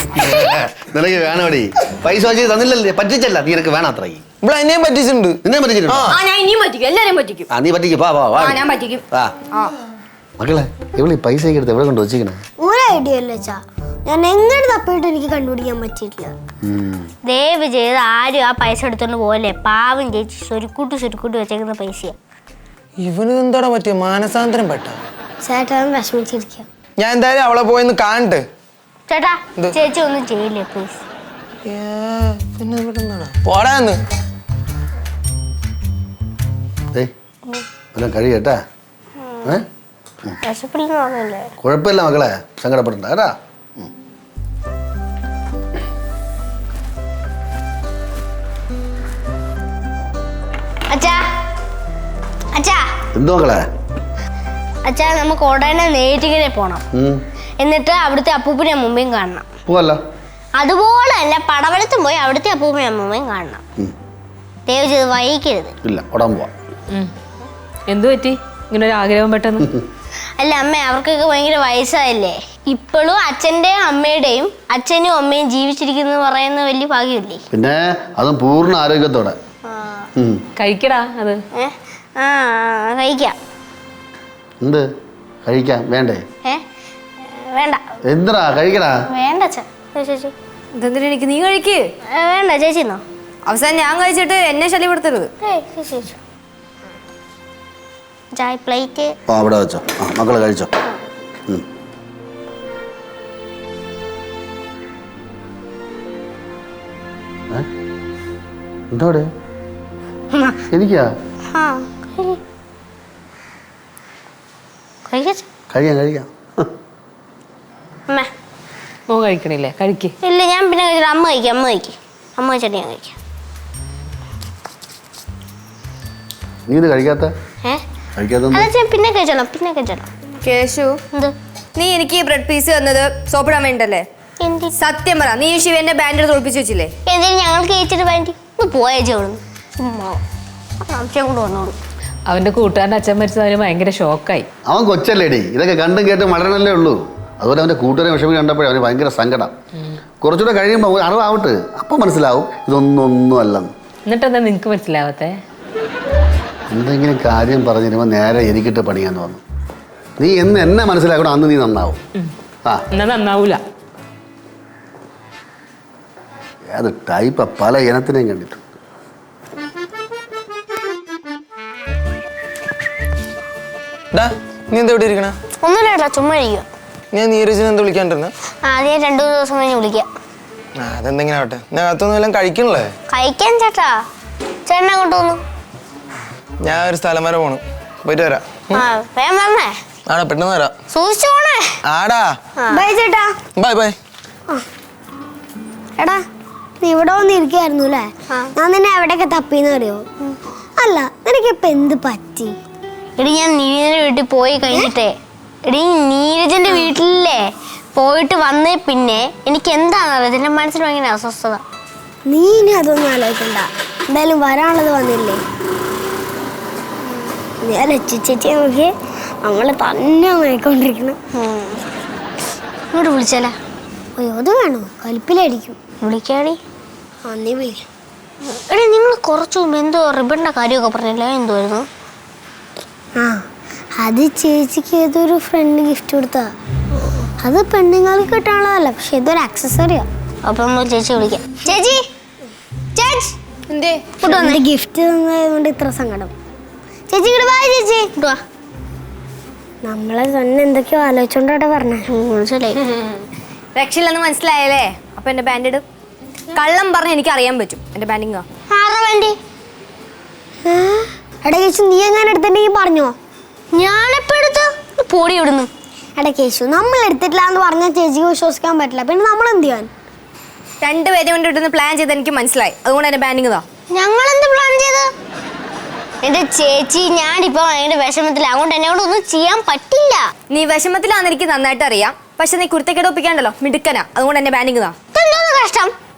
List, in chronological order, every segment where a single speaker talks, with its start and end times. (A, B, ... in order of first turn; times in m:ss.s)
0:00.2-0:04.2 A
0:04.4-0:06.2 B
0:05.4-0:06.1 A
0:06.1-0:07.5 C
0:07.5-0:09.3 A
0:08.4-0:09.7 C
0:10.4-0:12.4 A
0:12.6-0:16.3 D
0:16.6-0:17.1 A
0:17.2-0:22.2 E
0:23.0-0:25.0 B
0:25.4-0:26.6 D
0:27.0-0:28.4 B
0:29.1-0:31.0 E
0:31.6-0:34.0 B
0:37.9-0:38.6 A
0:39.2-0:39.5 E
0:40.4-0:41.5 E
0:41.6-0:43.9 A
0:50.9-0:51.2 E
0:52.5-0:52.9 E
0:53.1-0:53.6 A
0:54.8-0:56.8 E
0:56.9-0:57.2 A
0:57.6-0:59.5 E
0:59.6-1:00.0 A
1:00.6-1:03.6 E
1:04.7-1:05.8 E
1:05.8-1:06.5 A
1:07.9-1:09.7 F
1:10.4-1:17.4 E
1:17.5-1:19.4 A
1:19.6-1:20.1 E
1:20.6-1:21.4 F
1:21.6-1:23.4 E
1:25.4-1:26.2 A
1:27.3-1:27.8 E
1:28.1-1:29.0 A
1:29.1-1:30.3 E
1:30.8-1:31.9 C
1:32.1-1:33.0 E
1:33.4-1:35.3 C
1:35.4-1:36.2 E
1:38.3-1:39.1 E
1:39.3-1:40.7 A
1:48.9-1:49.3 A
1:50.3-1:50.6 E
1:50.7-1:51.1 A
1:51.5-1:52.4 E
1:55.1-1:55.4 E
1:55.7-1:56.7 A
1:59.1-2:00.1 F
2:00.2-2:03.2 E
2:06.7-2:07.3 A
2:08.2-2:08.7 A
2:08.5-2:10.1 E
2:10.4-2:11.0 C
2:11.8-2:14.0 C
2:14.4-2:14.7 E
2:14.8-2:16.9 C
2:17.0-2:20.2 E
2:20.8-2:21.8 E
2:22.3-2:24.5 F
2:24.7-2:29.5 A
2:30.2-2:33.7 A
2:34.0-2:35.4 F
2:36.7-2:39.4 A
2:40.2-2:42.0 A
2:42.9-2:43.6 F
2:46.7-2:48.6 A
2:54.1-2:55.4 B
2:55.6-2:56.6 E
2:57.1-2:58.3 B
2:58.6-3:00.1 E
3:00.8-3:02.9 B
3:03.1-3:04.0 E
3:04.6-3:05.4 E
3:06.6-3:08.8 B
3:08.7-3:09.8 E
3:10.1-3:10.8 B
3:10.9-3:11.8 E
3:11.9-3:12.4 B
3:12.7-3:13.3 D
3:13.6-3:14.0 B
3:16.8-3:20.0 D
3:20.8-3:22.5 D
3:23.2-3:31.6 E
3:32.2-3:35.4 D
3:37.6-3:38.9 D
3:39.4-3:41.2 D
3:41.3-3:41.8 E
3:42.9-3:43.6 E
3:44.2-3:45.8 D
3:46.0-3:46.6 E
3:47.3-3:47.9 D
3:48.4-3:51.9 E
3:54.0-3:56.5 D
3:57.4-4:00.0 D
4:00.4-4:02.0 E
4:03.7-4:04.2 C
4:04.2-4:06.3 D
4:04.2-4:04.6 E
4:07.1-4:08.1 D
4:08.2-4:08.4 E
4:09.8-4:12.0 D
4:12.1-4:12.8 E
4:13.8-4:15.8 C
4:16.5-4:18.4 C
4:18.7-4:19.4 E
4:20.7-4:23.1 D
4:23.7-4:25.7 E
4:26.2-4:29.9 D
4:30.8-4:33.6 C
4:33.9-4:35.1 E
4:36.2-4:40.3 E
4:40.5-4:45.0 C
4:45.1-4:45.9 E